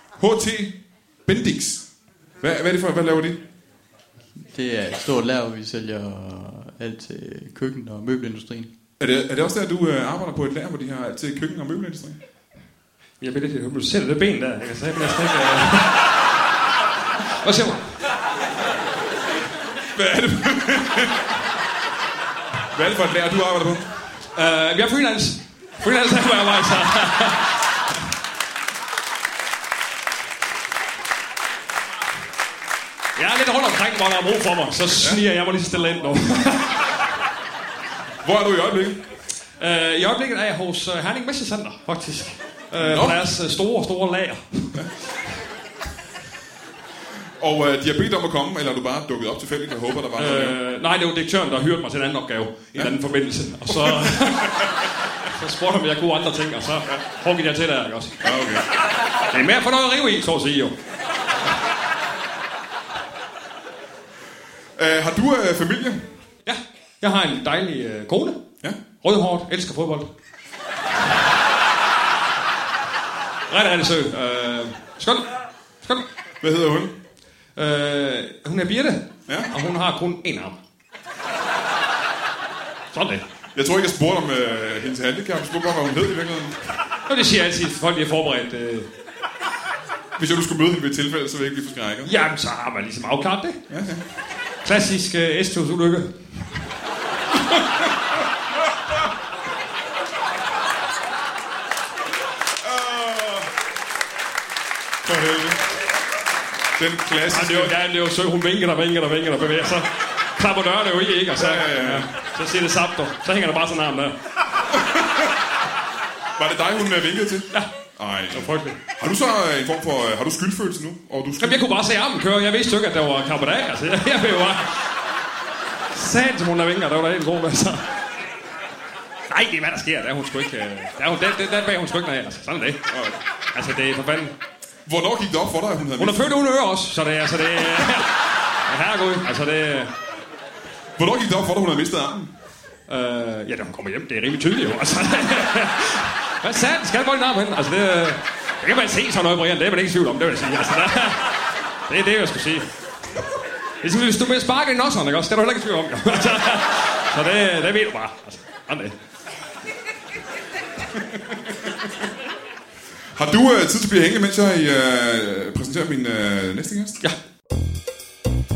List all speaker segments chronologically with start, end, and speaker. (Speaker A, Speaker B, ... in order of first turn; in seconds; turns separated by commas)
Speaker A: 0.2-1.9, Speaker A: 2.4-3.4, Speaker B: 4.4-8.7, Speaker A: 9.0-12.2, Speaker C: 13.2-16.1, Speaker C: 17.4-17.9, Speaker A: 19.9-21.3, Speaker A: 22.7-23.9, Speaker C: 24.3-27.7, Speaker C: 33.2-36.9, Speaker A: 38.2-39.0, Speaker C: 39.6-44.9, Speaker A: 42.8-43.2, Speaker A: 47.4-50.6, Speaker C: 50.2-58.2, Speaker A: 53.7-54.7, Speaker A: 58.2-58.7, Speaker C: 59.3-60.8, Speaker A: 64.8-66.1, Speaker C: 66.5-68.4, Speaker C: 69.0-70.1, Speaker C: 73.5-75.3, Speaker A: 76.4-77.0, Speaker C: 77.6-80.6, Speaker C: 82.9-83.2, Speaker A: 83.5-86.6, Speaker C: 87.1-88.9, Speaker A: 90.2-92.1, Speaker C: 92.0-93.6, Speaker A: 93.7-94.0, Speaker C: 94.6-96.2, Speaker A: 102.6-103.5, Speaker A: 105.0-105.6, Speaker A: 106.8-107.7, Speaker C: 107.3-114.2, Speaker A: 111.4-112.1, Speaker A: 114.8-115.3, Speaker A: 116.4-121.6, Speaker C: 118.3-118.8, Speaker C: 121.4-124.9, Speaker C: 125.9-127.9, Speaker C: 129.3-132.9, Speaker A: 132.9-133.2, Speaker C: 133.5-134.3, Speaker A: 134.9-136.4, Speaker C: 136.0-139.9, Speaker A: 141.0-142.3, Speaker C: 142.9-152.7, Speaker C: 153.8-158.9, Speaker A: 163.2-167.0